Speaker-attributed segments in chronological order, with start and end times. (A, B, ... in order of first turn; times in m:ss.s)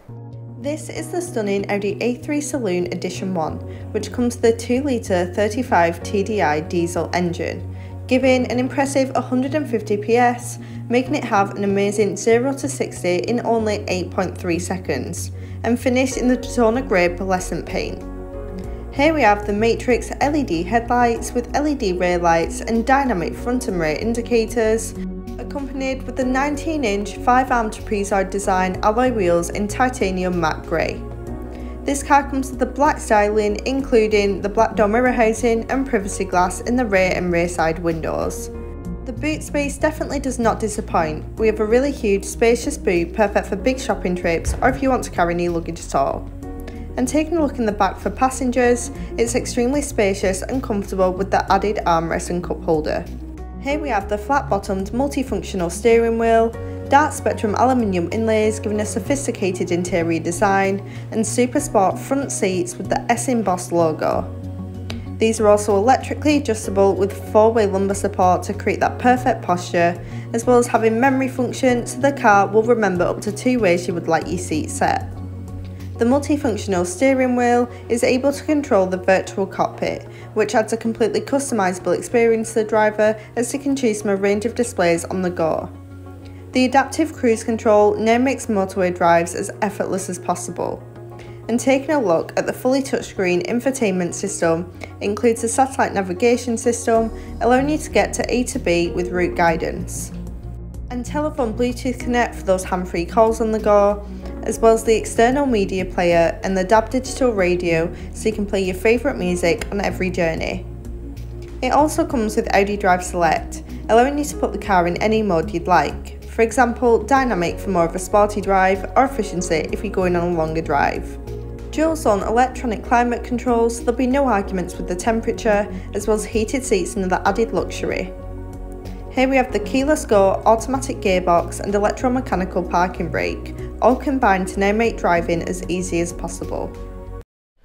0:00.6-0:18.0 A
0:18.9-0:31.0 A
0:31.8-0:38.5 A
0:39.0-0:46.3 A
0:47.0-0:53.1 A
0:53.6-1:04.3 A
1:05.2-1:15.1 A
1:16.0-1:25.7 A
1:26.5-1:30.8 A
1:31.5-1:40.1 A
1:40.9-1:50.7 A
1:51.6-2:01.2 A
2:01.7-2:08.1 A
2:09.1-2:16.8 A